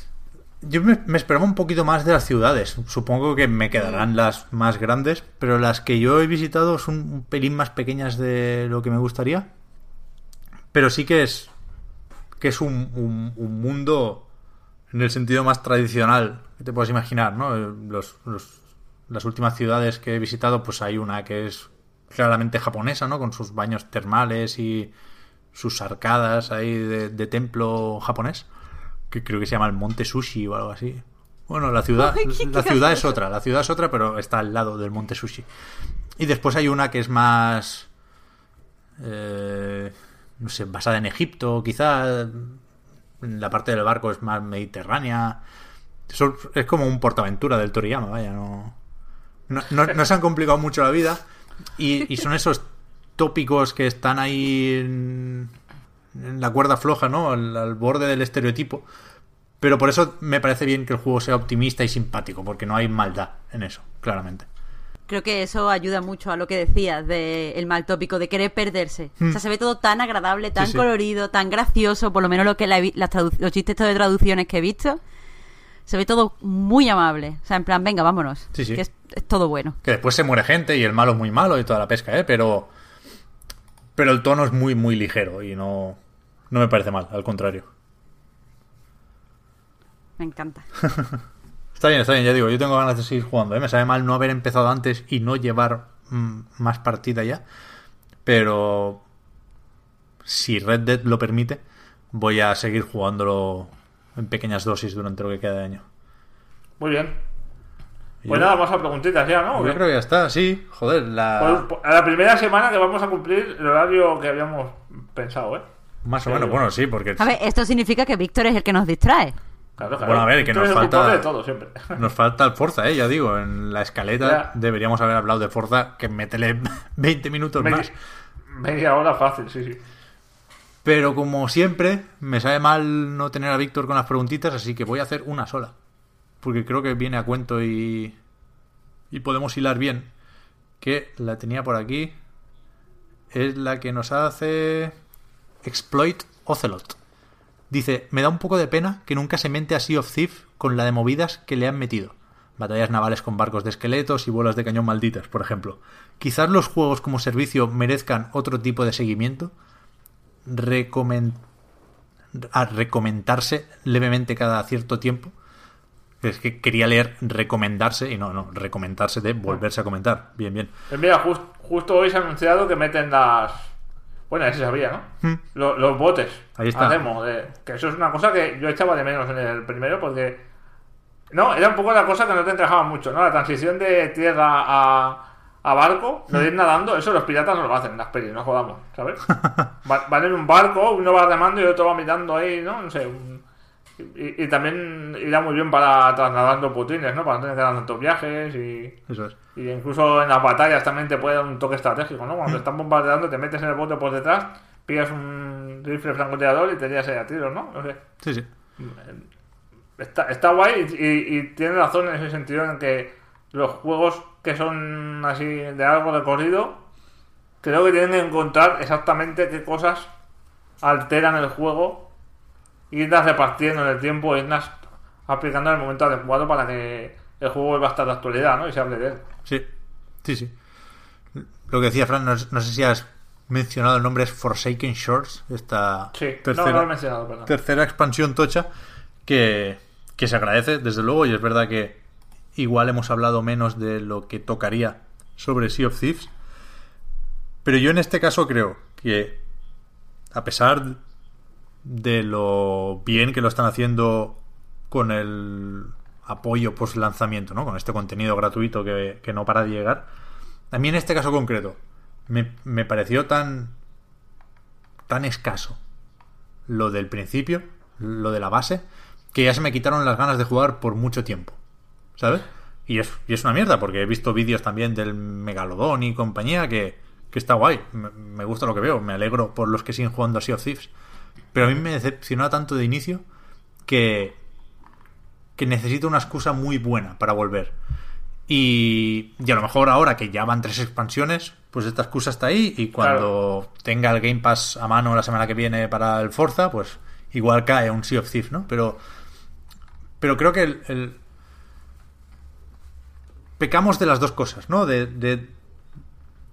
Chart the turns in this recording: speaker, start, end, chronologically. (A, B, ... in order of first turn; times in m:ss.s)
0:00.6-0:09.5 A
0:10.7-0:11.5 A
0:12.4-0:14.3 A
0:14.9-0:18.6 A
0:19.1-0:24.9 A
0:25.5-0:28.5 A
0:29.1-0:35.5 A
0:32.0-0:33.1 B
0:36.2-0:37.9 A
0:39.0-0:42.6 A
0:43.2-0:45.4 A
0:46.1-0:48.8 A
0:49.5-0:51.2 A
0:51.8-0:55.5 A
0:56.1-0:58.8 A
0:59.6-1:04.5 A
1:05.1-1:15.0 B
1:10.6-1:10.8 A
1:15.9-1:19.8 B
1:18.5-1:18.8 A
1:19.8-1:22.7 A
1:23.9-1:26.0 A
1:26.5-1:27.7 A
1:30.2-1:30.7 B
1:30.9-1:31.2 A
1:31.7-1:37.4 A
1:38.2-1:39.0 A
1:40.2-1:45.8 A
1:46.8-1:47.2 C
1:48.2-1:48.6 A
1:48.3-1:49.8 C
1:49.5-1:51.7 A
1:51.4-1:55.6 C
1:56.0-1:57.3 A
1:56.2-1:56.6 C
1:57.2-1:59.4 B
1:59.8-2:02.0 C
2:00.0-2:01.3 A
2:01.9-2:07.9 A
2:04.2-2:04.5 C
2:07.6-2:07.9 C
2:08.5-2:09.8 C
2:10.8-2:15.7 A
2:16.4-2:18.2 A
2:19.1-2:20.1 A
2:20.8-2:22.2 A
2:23.3-2:24.9 A
2:25.6-2:27.0 A
2:27.7-2:39.5 A
2:40.4-2:41.4 A
2:42.3-2:45.3 A
2:46.2-2:50.7 A
2:50.9-2:53.7 C
2:54.3-3:00.4 C
2:56.6-2:57.0 A
3:01.3-3:13.4 C
3:14.0-3:19.0 C
3:19.1-3:19.4 A
3:19.5-3:28.0 C
3:28.2-3:28.5 A
3:28.8-3:29.2 C
3:30.0-3:36.8 C
3:37.6-3:40.1 C
3:40.8-3:42.1 C
3:42.9-3:44.7 C
3:45.3-3:49.2 C
3:50.2-3:50.5 A
3:51.3-3:56.9 A
3:56.1-3:57.5 C
3:57.4-3:58.7 A
3:59.2-4:02.0 A
4:02.5-4:06.3 A
4:07.6-4:09.4 A
4:10.3-4:11.0 A
4:11.8-4:20.1 A
4:20.7-4:23.7 A
4:25.1-4:25.8 A
4:26.7-4:31.6 A
4:32.2-4:40.9 A
4:41.5-4:43.2 A
4:43.8-4:44.4 A
4:45.6-4:47.7 A
4:48.5-4:59.0 A
4:53.0-4:53.3 C
5:00.2-5:01.2 A
5:03.6-5:05.5 A